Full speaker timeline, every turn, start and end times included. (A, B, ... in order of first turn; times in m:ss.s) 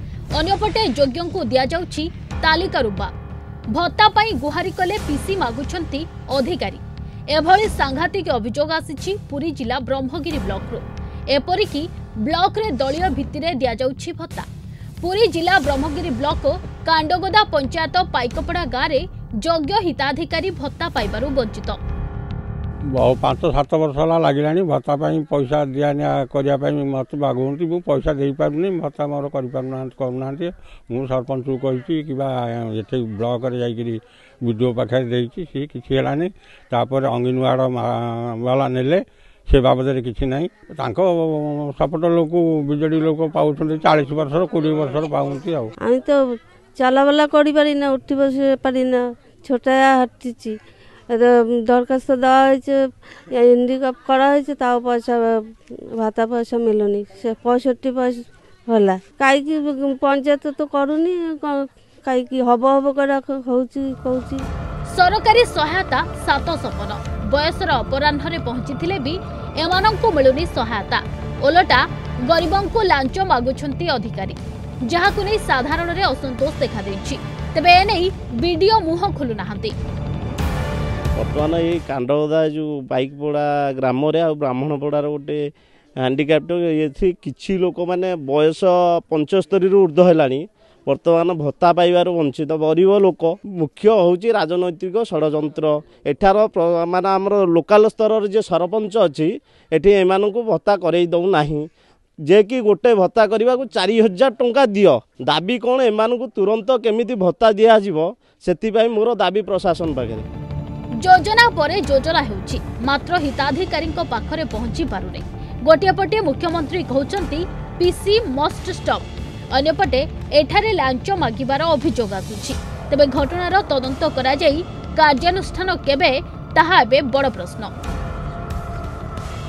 0:00.4-0:03.1 A
0:03.7-0:14.5 A
0:15.0-0:21.8 A
0:22.9-0:45.7 B
0:45.8-0:46.2 C
0:46.8-0:50.6 C
0:51.1-0:55.4 C
0:56.0-1:04.4 C
1:04.9-1:19.7 A
1:21.2-1:25.4 D
1:26.0-1:41.7 D
1:42.3-1:50.3 D
1:51.0-2:07.7 A